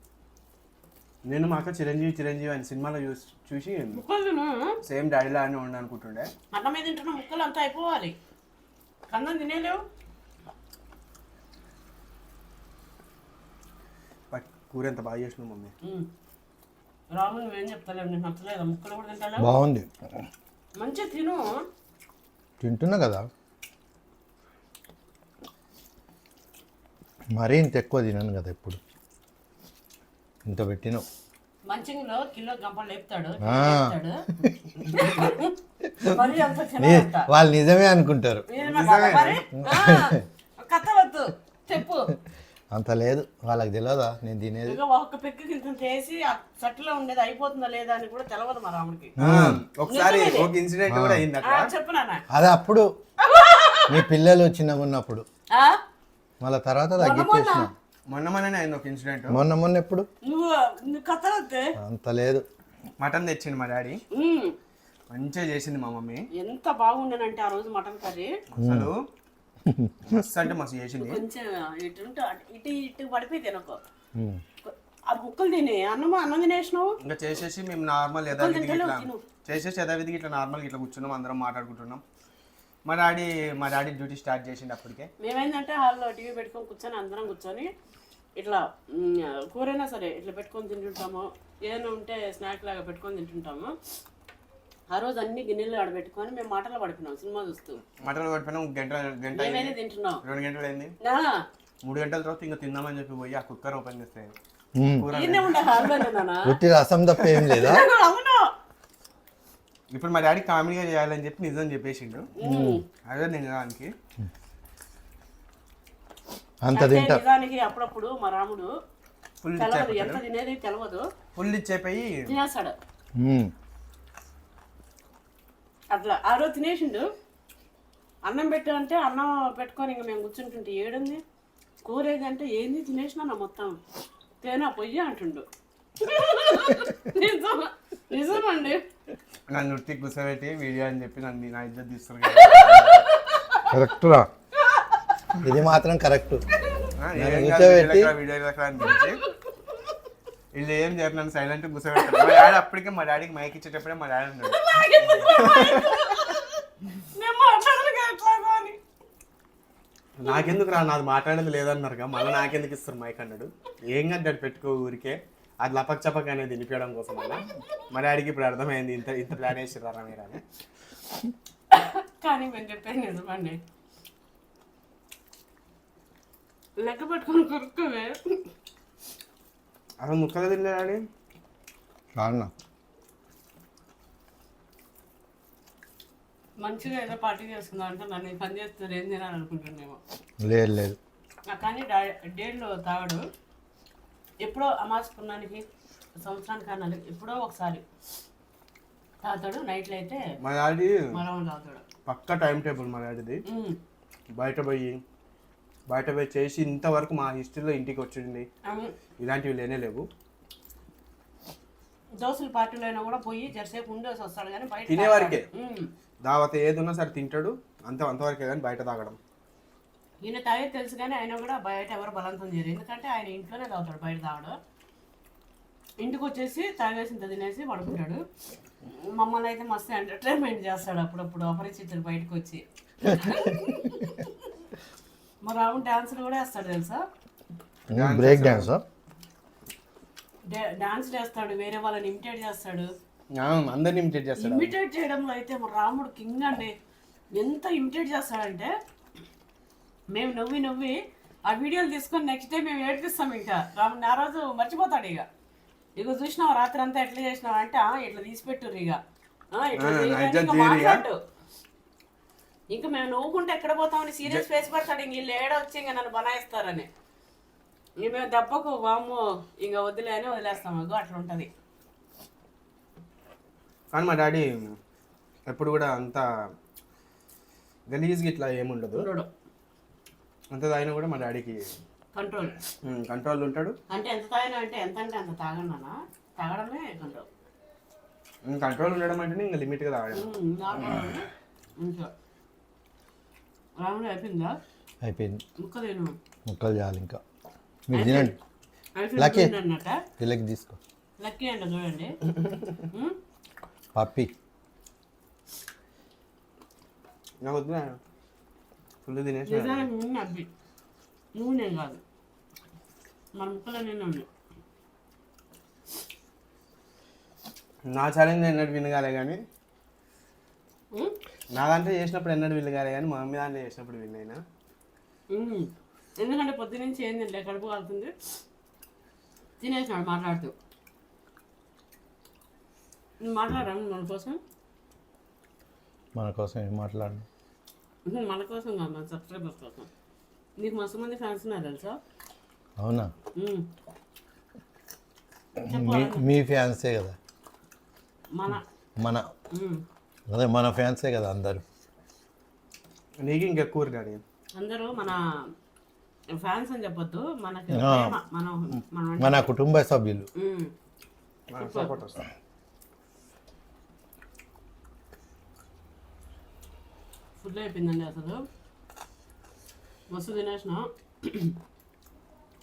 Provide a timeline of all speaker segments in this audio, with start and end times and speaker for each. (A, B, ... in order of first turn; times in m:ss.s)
0:01.3-0:04.0 A
0:04.0-0:04.8 B
0:04.8-0:06.3 A
0:06.5-0:08.2 B
0:09.1-0:09.8 B
0:14.3-0:15.7 A
0:17.1-0:19.5 B
0:19.4-0:19.9 C
0:20.8-0:21.6 B
0:22.6-0:23.3 C
0:27.3-0:28.8 C
0:30.4-0:31.0 C
0:31.7-0:34.2 B
0:33.4-0:34.7 C
0:34.9-0:37.3 B
0:35.8-0:36.2 C
0:36.8-0:38.5 C
0:38.5-0:42.1 B
0:38.6-0:39.4 A
0:39.6-0:40.2 C
0:42.7-0:44.8 C
0:44.7-0:49.2 B
0:49.2-0:49.6 C
0:49.2-0:51.7 A
0:49.9-0:50.5 B
0:50.9-0:51.2 C
0:51.4-0:52.2 B
0:52.3-0:52.9 C
0:53.2-0:54.1 B
0:53.9-0:55.2 C
0:55.5-0:55.8 B
0:56.4-0:57.7 C
0:57.0-0:57.7 B
0:58.1-0:59.4 A
0:59.3-1:00.1 C
1:00.3-1:01.7 B
1:01.8-1:02.4 C
1:03.0-1:04.0 A
1:04.1-1:04.6 B
1:05.1-1:06.3 A
1:06.4-1:08.3 B
1:08.6-1:09.0 A
1:08.6-1:08.9 C
1:09.6-1:10.2 C
1:10.1-1:11.2 A
1:11.0-1:13.8 B
1:14.2-1:14.4 C
1:14.6-1:17.0 B
1:17.0-1:22.0 A
1:18.3-1:19.2 B
1:22.9-1:25.1 A
1:25.2-1:27.7 B
1:28.4-1:33.8 B
1:34.9-1:37.8 B
1:38.0-1:40.9 A
1:39.4-1:40.2 B
1:41.0-1:41.5 B
1:41.8-1:44.3 A
1:44.8-1:45.1 C
1:45.0-1:46.0 A
1:45.1-1:46.6 B
1:46.4-1:47.9 C
1:47.2-1:48.5 B
1:49.9-1:52.3 A
1:52.4-1:52.8 B
1:52.4-1:52.8 C
1:53.1-1:53.9 A
1:56.6-1:57.2 C
1:56.7-1:58.7 B
1:59.4-2:00.2 A
1:59.6-2:01.0 B
2:01.4-2:02.3 A
2:02.3-2:02.8 B
2:03.2-2:03.5 C
2:05.9-2:07.0 B
2:08.2-2:11.2 B
2:11.8-2:13.8 B
2:14.4-2:15.5 B
2:16.0-2:18.8 B
2:19.5-2:23.1 A
2:22.3-2:23.7 B
2:23.7-2:24.3 C
2:24.6-2:25.1 B
2:25.4-2:26.4 C
2:27.0-2:29.2 A
2:27.2-2:28.1 C
2:28.8-2:29.8 B
2:30.6-2:36.2 A
2:32.0-2:32.5 B
2:34.4-2:38.8 B
2:40.2-2:50.4 A
2:40.2-2:40.6 B
2:47.2-2:47.6 B
2:51.7-2:53.6 B
2:56.8-2:58.4 B
3:00.0-3:01.0 A
3:02.2-3:02.5 C
3:06.6-3:10.0 B
3:10.4-3:11.0 C
3:11.5-3:13.2 B
3:14.4-3:15.6 B
3:16.2-3:17.8 B
3:19.2-3:20.2 B
3:20.4-3:21.2 A
3:21.1-3:21.8 B
3:22.1-3:23.4 A
3:23.5-3:23.8 B
3:24.4-3:25.0 A
3:25.9-3:28.5 A
3:28.7-3:29.0 B
3:29.2-3:30.1 A
3:32.2-3:35.9 B
3:34.9-3:35.5 A
3:36.2-3:39.2 A
3:40.2-3:44.6 B
3:46.0-3:48.2 B
3:48.9-3:54.5 B
3:55.4-3:57.0 B
3:57.9-3:58.8 C
3:57.9-3:58.7 A
4:00.5-4:02.9 B
4:03.4-4:04.8 A
4:04.4-4:06.8 B
4:07.3-4:08.7 B
4:10.1-4:11.0 B
4:11.5-4:15.3 B
4:16.0-4:19.0 B
4:19.5-4:21.2 B
4:19.8-4:21.0 A
4:22.7-4:26.9 B
4:28.0-4:31.5 B
4:33.9-4:34.8 A
4:35.5-4:36.3 A
4:37.9-4:39.1 A
4:38.9-4:39.3 B
4:40.5-4:41.7 A
4:42.2-4:42.6 B
4:42.8-4:43.8 A
4:43.9-4:47.3 B
4:48.5-4:50.3 A
4:50.1-4:51.3 B
4:51.8-4:52.1 B
4:53.8-4:54.6 B
4:55.0-4:55.4 C
4:55.6-4:56.2 B
4:56.5-4:57.2 C
4:57.9-4:58.4 C
4:57.9-4:58.4 B
4:59.0-5:00.0 B
4:59.2-4:59.5 C
5:00.2-5:00.8 C
5:01.2-5:02.2 B
5:02.9-5:03.2 B
5:04.0-5:04.3 C
5:07.4-5:08.0 A
5:09.0-5:09.9 A
5:09.5-5:10.5 B
5:11.4-5:12.0 B
5:13.4-5:14.3 B
5:17.9-5:19.4 A
5:21.5-5:24.4 A
5:25.3-5:28.1 B
5:29.6-5:30.5 B
5:33.2-5:34.4 B
5:36.2-5:37.2 C
5:38.1-5:39.9 B
5:40.6-5:42.0 B
5:42.8-5:43.1 C
5:43.4-5:43.7 B
5:45.6-5:47.2 C
5:45.7-5:46.3 B
5:48.3-5:48.6 B
5:49.0-5:49.3 C
5:49.5-5:49.8 B
5:50.3-5:51.6 C
5:53.2-5:54.2 A
5:54.6-5:55.2 B
5:56.4-5:59.5 B
5:57.7-5:58.2 C
5:59.2-6:00.3 C
6:00.4-6:00.7 B
6:01.5-6:02.2 A
6:01.6-6:01.9 B
6:07.4-6:08.4 B
6:10.1-6:11.6 B